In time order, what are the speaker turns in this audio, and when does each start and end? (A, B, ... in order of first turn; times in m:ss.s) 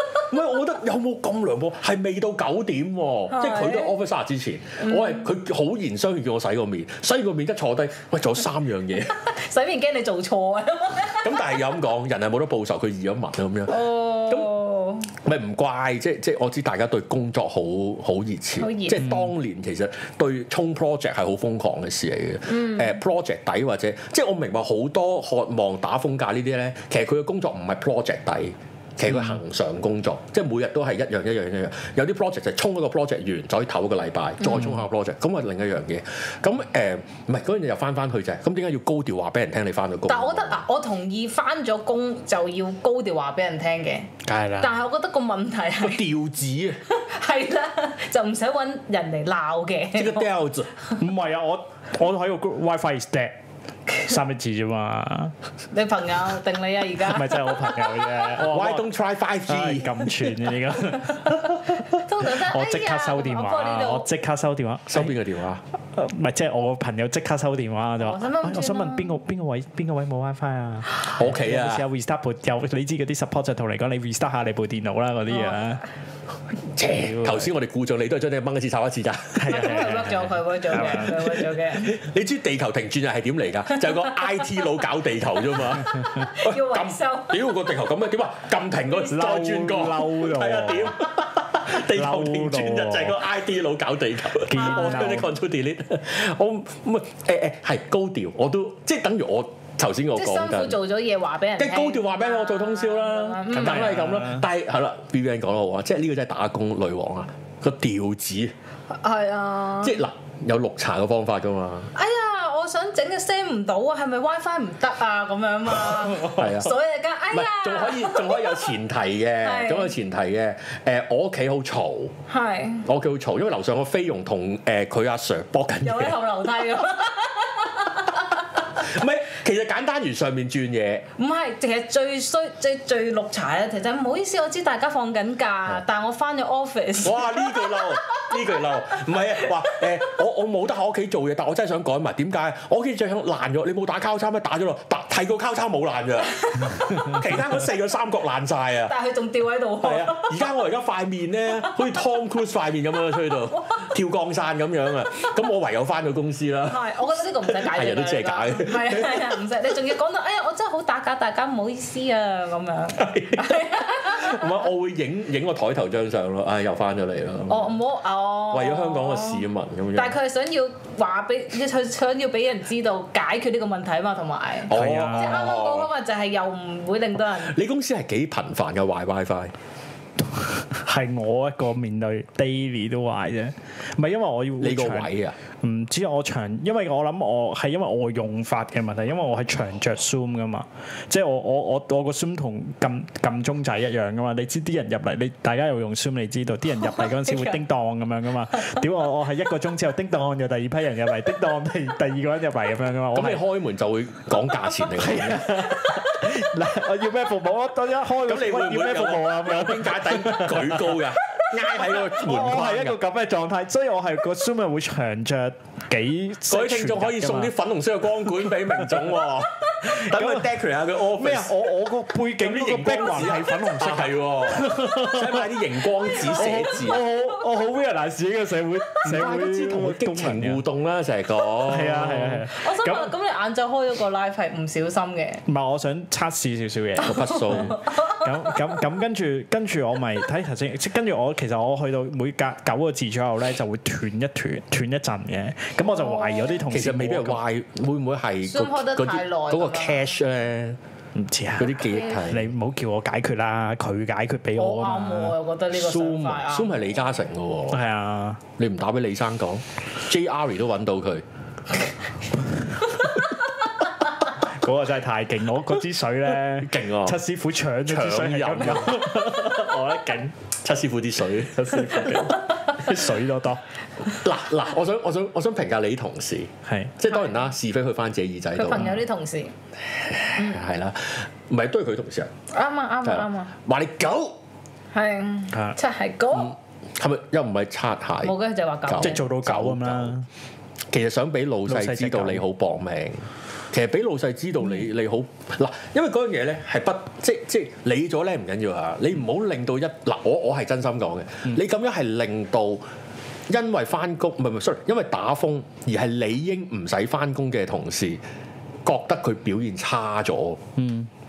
0:00.3-0:09.2 A
0:03.3-0:03.9 B
0:04.8-0:05.3 B
0:09.3-0:11.5 B
0:11.2-0:14.5 A
0:13.7-0:15.1 B
0:15.2-0:40.6 A
0:18.6-0:19.1 B
0:22.5-0:23.0 B
0:29.1-0:29.4 C
0:34.4-0:34.7 B
0:40.1-0:46.0 B
0:44.2-0:44.8 C
0:45.8-0:46.8 A
0:46.9-0:50.3 B
0:49.9-0:50.7 A
0:51.0-0:53.4 C
0:54.0-0:55.3 C
0:55.7-0:58.1 B
0:57.0-0:58.9 C
0:58.4-1:00.3 A
0:59.4-1:05.1 C
1:01.9-1:04.1 B
1:04.9-1:05.6 A
1:05.9-1:15.8 C
1:08.0-1:09.2 B
1:11.1-1:11.8 A
1:15.3-1:15.6 B
1:16.7-1:20.0 A
1:16.9-1:17.5 C
1:19.4-1:21.4 C
1:19.4-1:21.9 B
1:20.9-1:40.8 A
1:26.1-1:27.4 B
1:29.0-1:31.0 C
1:31.7-1:33.2 C
1:34.4-1:35.3 C
1:34.5-1:35.2 B
1:40.1-1:43.9 B
1:41.6-1:48.5 A
1:43.5-1:44.4 C
1:48.9-1:50.0 B
1:49.8-1:51.9 A
1:51.9-1:58.7 B
1:56.3-1:56.8 A
1:57.3-2:02.1 A
1:59.4-1:59.9 B
2:02.3-2:02.8 B
2:02.8-2:06.3 A
2:05.8-2:08.4 B
2:08.7-2:11.1 A
2:11.2-2:18.5 B
2:17.0-2:28.9 A
2:19.4-2:19.8 B
2:28.9-2:30.5 B
2:29.8-2:36.8 A
2:36.6-2:44.6 B
2:37.4-2:39.4 A
2:43.0-2:47.8 A
2:47.5-2:49.4 B
2:48.5-2:50.2 A
2:49.9-2:57.6 B
2:54.7-2:55.9 A
2:54.7-2:55.5 C
2:57.4-2:59.5 A
3:00.7-3:05.1 C
3:04.6-3:05.4 A
3:05.6-3:23.4 C
3:16.8-3:17.6 B
3:23.1-3:25.7 A
3:25.0-3:37.5 C
3:28.2-3:33.0 A
3:36.5-3:41.5 A
3:38.4-3:38.9 C
3:39.8-3:40.5 C
3:41.1-3:50.6 C
3:42.4-3:47.0 A
3:49.0-3:52.5 A
3:51.6-3:53.1 C
3:52.5-3:55.4 B
3:55.4-4:07.4 C
3:57.0-3:58.8 B
3:57.0-3:57.8 A
4:05.9-4:06.6 B
4:06.7-4:10.8 A
4:08.4-4:10.1 B
4:11.1-4:15.3 C
4:11.6-4:12.5 A
4:14.6-4:16.8 B
4:15.7-4:17.8 A
4:17.7-4:18.4 C
4:18.6-4:21.2 A
4:24.4-4:30.3 C
4:26.5-4:27.2 A
4:27.8-4:29.6 A
4:30.5-4:32.4 A
4:31.5-4:33.6 C
4:34.1-4:39.0 A
4:36.6-4:36.9 C
4:37.1-4:37.4 B
4:38.6-4:39.5 B
4:39.8-4:42.3 A
4:40.4-4:40.6 B
4:42.5-4:43.5 B
4:43.0-4:44.4 A
4:44.9-4:46.5 B
4:46.3-4:48.3 A
4:48.2-4:49.2 B
4:48.8-4:50.2 A
4:49.0-4:50.2 C
4:50.9-5:02.8 A
4:51.7-4:52.4 C
5:03.5-5:08.2 A
5:08.8-5:10.6 A
5:10.8-5:11.1 C